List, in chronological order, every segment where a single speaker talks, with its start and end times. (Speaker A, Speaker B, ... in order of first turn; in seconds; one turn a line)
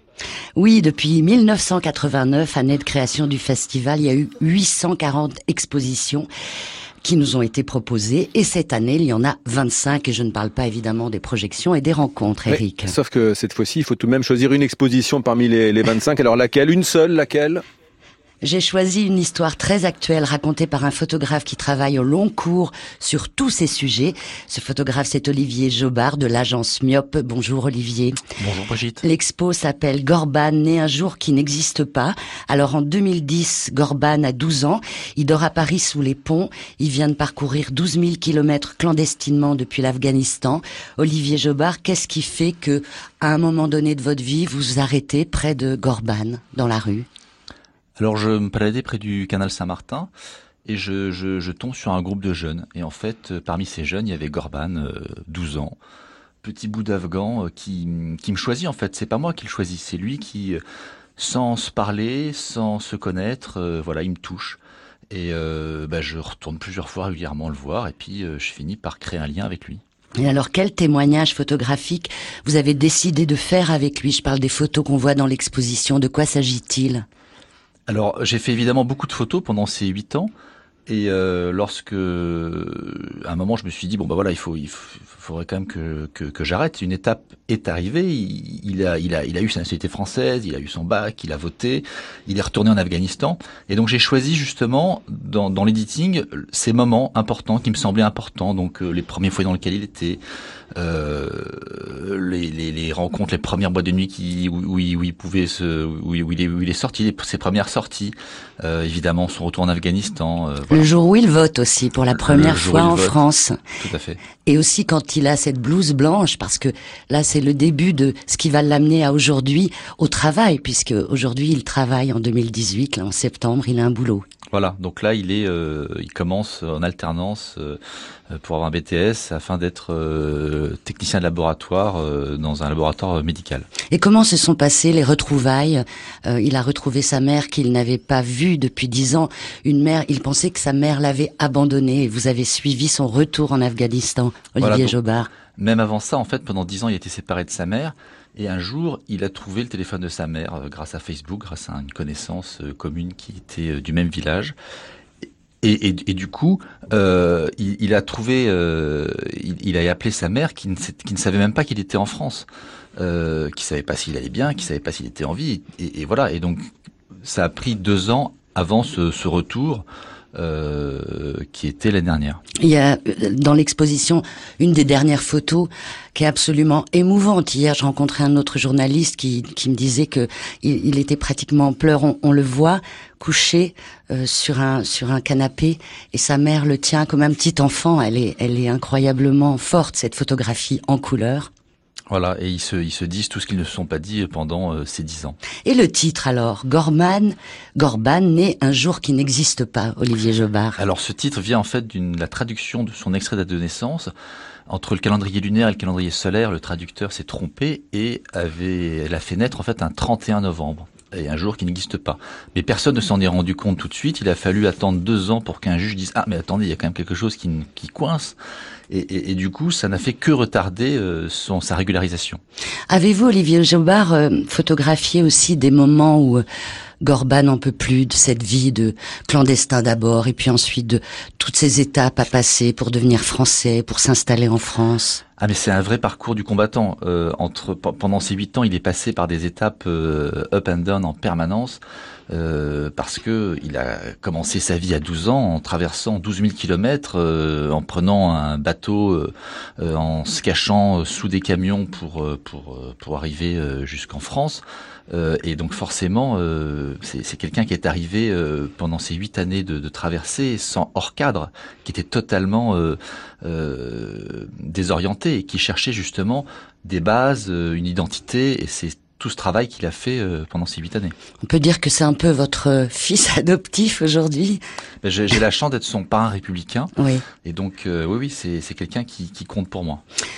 Speaker A: 0.6-6.3
Speaker A: 7.0-12.9
Speaker B: 12.5-17.6
Speaker A: 18.4-28.2
Speaker C: 28.4-29.0
Speaker A: 29.0-47.1
Speaker C: 48.0-50.1
Speaker C: 50.6-55.8
Speaker C: 56.4-60.6
Speaker C: 61.2-64.6
Speaker C: 65.1-69.8
Speaker A: 70.2-77.0
Speaker C: 77.9-80.3
Speaker C: 80.9-100.2
Speaker C: 100.8-110.9
Speaker A: 110.7-113.6
Speaker C: 112.2-113.2
Speaker C: 113.8-114.2
Speaker A: 114.4-124.2
Speaker C: 124.5-127.8
Speaker C: 128.3-133.7
Speaker A: 133.9-145.3
Speaker C: 144.6-144.9
Speaker C: 145.6-154.5
Speaker C: 155.6-166.7
Speaker C: 167.2-169.8
Speaker C: 170.3-172.4
Speaker A: 172.6-191.5
Speaker C: 192.1-195.4
Speaker A: 195.6-200.8
Speaker C: 200.8-204.1
Speaker C: 204.7-218.3
Speaker C: 218.9-222.4
Speaker A: 222.9-226.4
Speaker A: 227.0-235.2
Speaker C: 235.4-271.1
Speaker A: 271.4-274.6
Speaker C: 275.0-276.9
Speaker A: 277.0-277.2
Speaker C: 277.4-280.0